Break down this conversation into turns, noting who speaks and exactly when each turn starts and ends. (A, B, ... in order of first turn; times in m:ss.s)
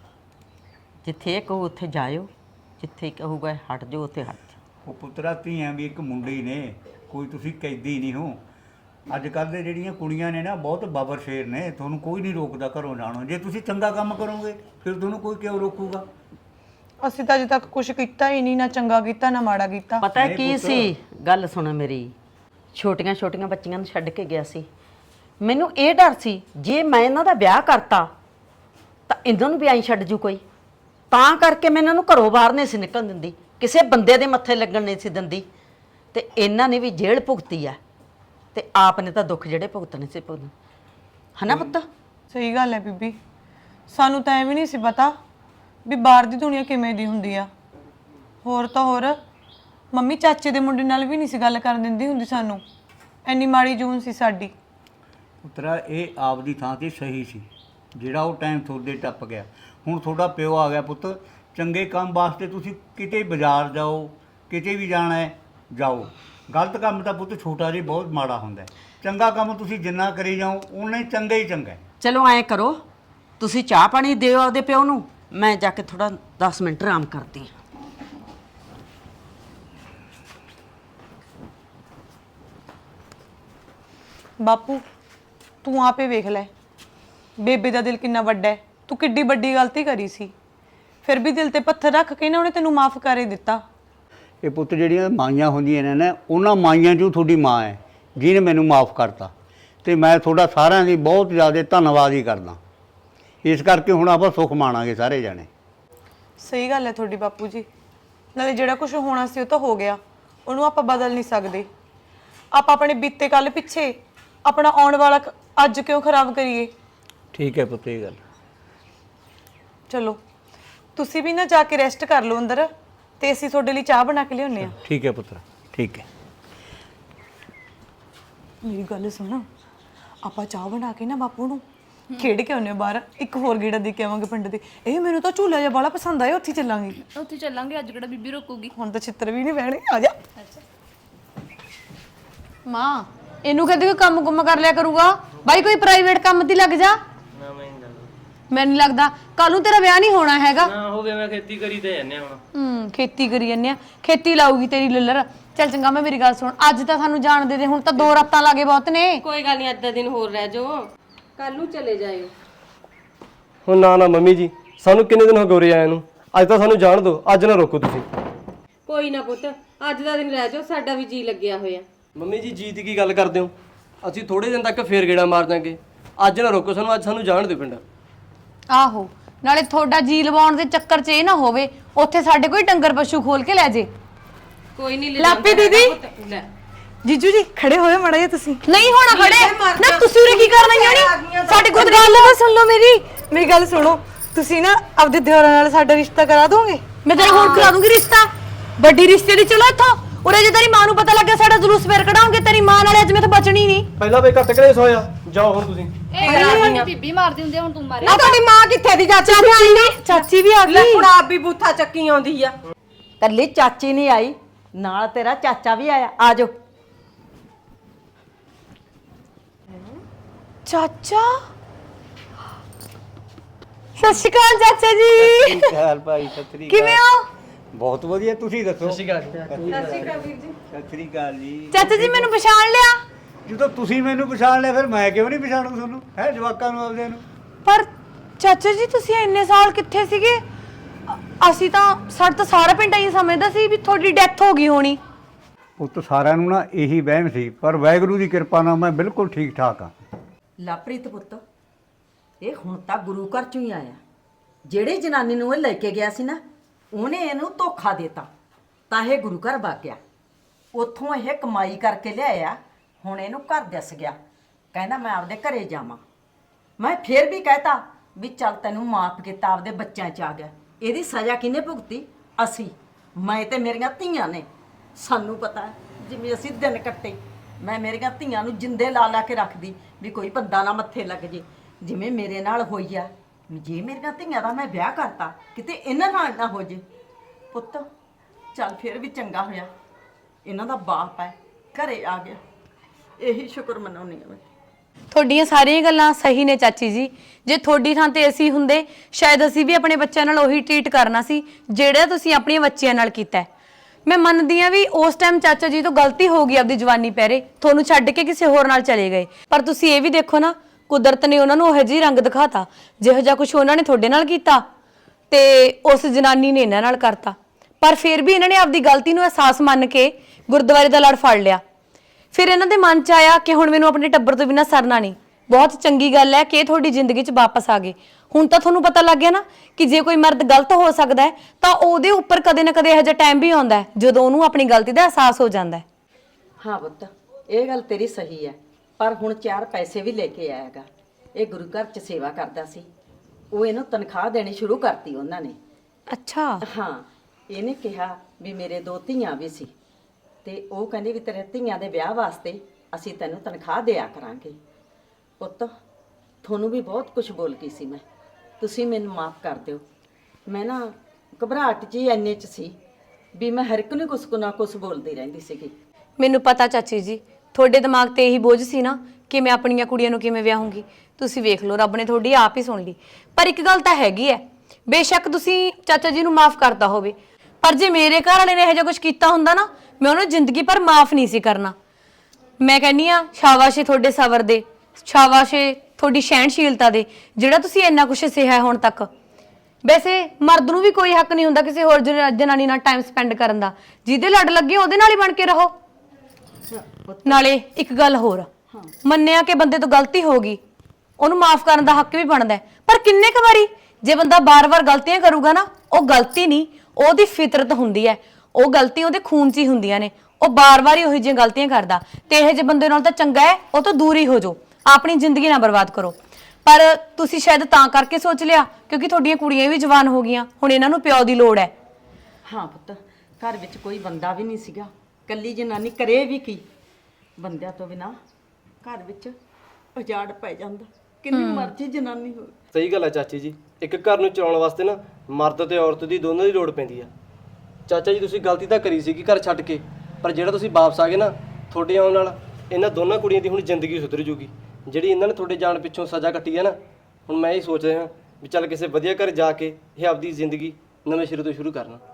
0:01.0-0:04.4 A
0:04.8-0:08.4 B
0:09.1-0:16.1 B
0:17.0-0:20.0 C
0:20.0-0:22.1 A
0:20.1-0:20.9 B
0:22.7-0:24.7 A
0:25.4-0:28.1 A
0:29.1-0:30.4 A
0:31.1-0:35.4 A
0:36.1-0:37.8 A
0:38.5-0:40.5 A
0:41.4-0:41.8 A
0:42.3-0:43.2 C
0:43.9-0:45.2 C
0:45.8-0:47.5 C
0:48.4-0:49.2 C
0:49.9-0:52.6 C
0:53.2-0:54.5 C
0:55.4-1:11.8 B
1:12.0-1:12.8 A
1:13.4-1:17.5 A
1:24.4-1:24.8 C
1:25.6-1:26.5 C
1:27.4-1:30.3 C
1:31.0-1:33.6 C
1:34.4-1:39.3 B
1:39.8-1:42.6 B
1:43.4-1:45.5 B
1:46.4-1:47.7 C
1:48.3-1:51.7 C
1:52.5-1:53.9 C
1:54.4-1:56.7 C
1:57.3-1:58.2 B
1:59.9-2:00.2 C
2:00.9-2:04.7 C
2:04.6-2:06.1 B
2:08.6-2:09.5 C
2:10.2-2:11.6 C
2:12.2-2:17.0 C
2:17.0-2:18.7 D
2:18.8-2:20.2 C
2:22.6-2:27.0 E
2:27.4-2:28.1 F
2:28.5-2:30.7 E
2:30.6-2:32.4 F
2:32.6-2:33.5 C
2:33.4-2:38.3 E
2:38.1-2:39.2 C
2:39.2-2:42.3 G
2:43.6-2:48.0 F
2:48.8-2:51.8 G
2:52.2-2:53.5 F
2:54.0-2:57.8 F
2:58.7-3:03.9 E
3:04.8-3:06.5 G
3:05.2-3:05.9 E
3:05.3-3:05.7 C
3:07.0-3:08.6 C
3:08.6-3:12.4 E
3:08.8-3:11.9 G
3:11.5-3:16.8 C
3:17.0-3:23.9 E
3:24.0-3:26.0 F
3:26.1-3:28.2 D
3:26.2-3:26.9 G
3:26.2-3:26.6 E
3:28.0-3:32.6 G
3:28.0-3:28.6 E
3:29.2-3:31.1 E
3:33.2-3:36.5 A
3:40.6-3:41.4 E
3:44.0-3:45.7 E
3:45.2-3:47.0 B
3:46.7-3:47.3 E
3:47.7-3:52.3 B
3:48.8-3:50.0 F
3:49.6-3:50.6 G
3:51.7-3:53.0 E
3:53.4-3:57.2 B
3:57.6-4:00.4 E
4:01.1-4:05.0 E
4:05.8-4:09.9 B
4:10.6-4:11.4 A
4:12.4-4:14.0 A
4:14.7-4:16.4 A
4:16.9-4:18.3 A
4:18.9-4:20.0 A
4:20.7-4:24.2 A
4:24.7-4:26.0 A
4:26.8-4:46.8 A
4:47.5-4:47.9 A
4:48.5-4:49.7 A
4:50.4-4:52.4 A
4:53.2-4:54.4 A
4:55.1-5:03.5 E
5:04.0-5:14.6 E
5:15.3-5:21.6 E
5:22.3-5:35.8 E
5:36.6-5:42.9 A
5:43.5-5:45.6 A
5:46.1-5:46.6 E
5:46.6-5:49.7 A
5:50.4-5:54.6 A
5:55.4-5:55.7 A
5:56.4-5:58.0 A
5:58.6-5:59.8 A
6:00.5-6:02.8 A
6:03.4-6:05.7 A
6:06.2-6:21.7 E
6:22.6-6:29.1 E
6:29.8-6:35.7 E
6:36.7-6:37.4 A
6:37.2-6:38.5 E
6:39.0-6:40.6 E
6:41.2-7:01.7 E
7:02.4-7:06.6 A
7:07.4-7:08.2 A
7:08.8-7:09.4 A
7:09.9-7:12.6 A
7:11.3-7:11.7 E
7:12.7-7:17.1 F
7:17.9-7:26.7 F
7:27.3-7:32.0 F